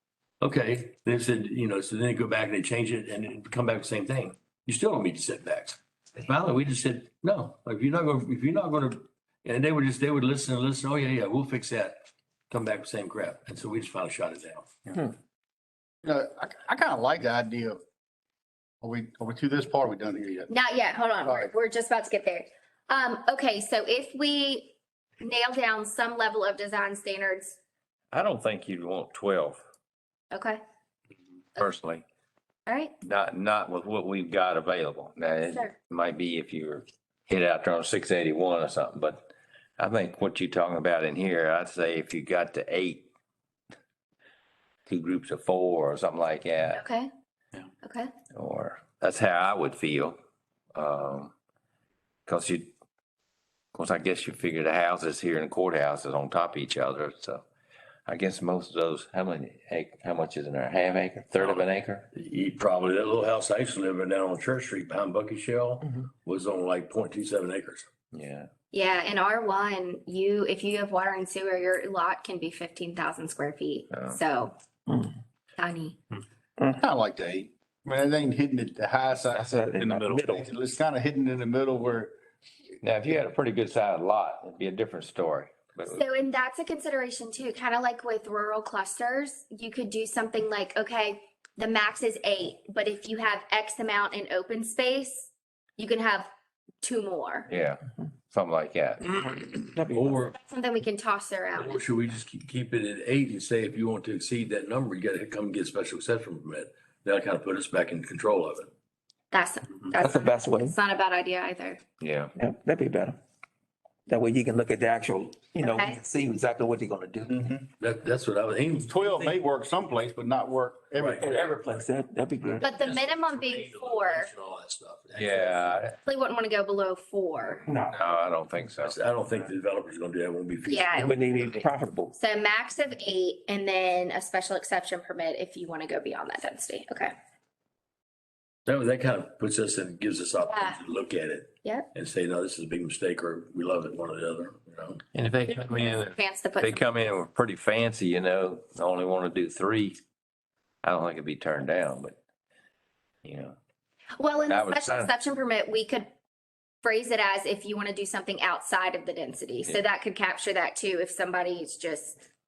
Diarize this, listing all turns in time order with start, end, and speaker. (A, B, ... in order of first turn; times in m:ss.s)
0:00.4-0:14.7 A
0:16.0-0:17.8 B
0:18.8-0:20.5 B
0:20.5-0:27.6 C
0:21.2-0:21.5 B
0:28.1-0:29.6 D
0:30.3-0:30.6 C
0:31.6-0:32.0 D
0:32.7-0:33.0 C
0:33.0-0:43.1 D
0:44.9-0:46.8 D
0:46.7-0:47.1 C
0:47.8-0:48.1 C
0:48.3-0:50.2 D
0:50.7-0:51.3 D
0:52.2-0:52.7 D
0:53.7-0:57.4 D
0:58.1-1:02.1 D
1:01.4-1:07.9 A
1:08.1-1:08.5 D
1:08.7-1:14.6 C
1:13.9-1:14.2 D
1:14.9-1:15.1 E
1:15.6-1:16.0 C
1:16.8-1:19.5 B
1:19.3-1:20.4 E
1:19.8-1:20.2 A
1:20.1-1:22.1 B
1:22.8-1:26.0 D
1:25.9-1:36.3 C
1:36.8-1:37.5 C
1:37.5-1:39.1 D
1:39.2-1:40.1 E
1:39.9-1:40.3 A
1:40.3-1:41.8 C
1:41.6-1:48.7 A
1:49.3-1:51.8 C
1:49.9-1:50.8 E
1:52.0-1:52.3 D
1:52.4-1:53.2 E
1:54.1-1:57.5 E
1:55.6-1:56.0 C
1:57.8-1:59.4 A
1:58.8-2:01.4 B
2:01.0-2:01.8 A
2:01.2-2:02.6 E
2:02.5-2:05.8 A
2:02.6-2:04.3 C
2:05.2-2:06.0 D
2:06.0-2:07.6 C
2:07.6-2:08.0 E
2:07.9-2:09.0 D
2:08.8-2:11.2 A
2:10.6-2:17.1 C
2:10.9-2:12.2 E
2:18.7-2:25.0 A
2:20.5-2:20.8 C
2:25.1-2:30.0 D
2:26.2-2:26.8 C
2:30.8-2:32.2 D
2:33.2-2:33.6 D
2:34.2-2:36.1 C
2:34.5-2:35.1 D
2:36.8-2:42.2 C